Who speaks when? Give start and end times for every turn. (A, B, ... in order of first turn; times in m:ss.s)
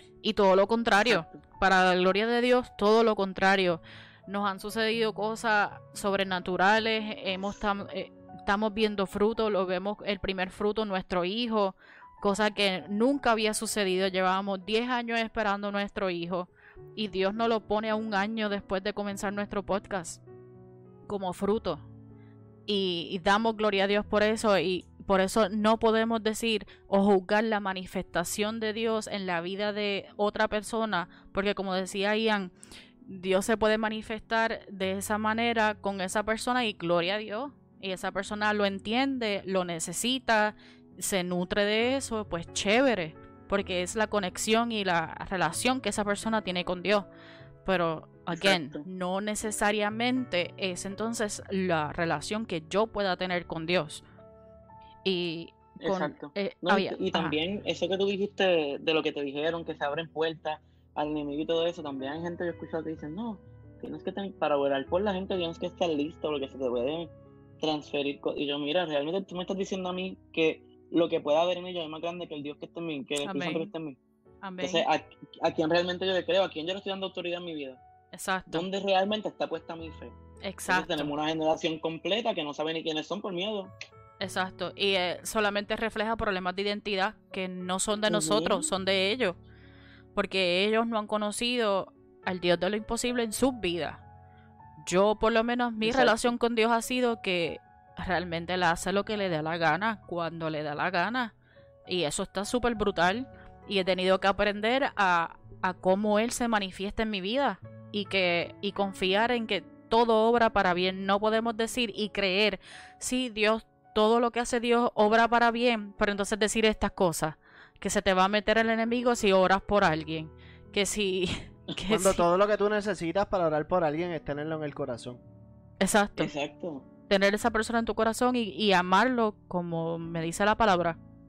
0:00.2-0:20.2 A
0:01.0-0:01.4 B
0:21.1-0:21.8 A
0:22.7-0:32.5 A
0:33.0-0:47.1 A
0:47.6-0:54.0 A
0:48.3-0:48.8 B
0:55.0-0:57.4 A
0:55.8-1:14.0 B
1:13.2-1:13.7 A
1:14.4-1:14.9 A
1:14.6-1:17.8 B
1:18.1-1:18.7 A
1:18.5-1:20.2 B
1:20.4-1:21.2 A
1:20.7-1:23.7 B
1:24.2-1:29.4 A
1:28.1-1:28.7 B
1:30.2-1:34.0 A
1:34.8-1:41.3 A
1:35.8-1:36.4 B
1:41.9-2:02.2 A
2:01.9-2:05.2 C
2:05.8-2:06.3 A
2:06.2-2:06.8 B
2:07.1-2:11.0 A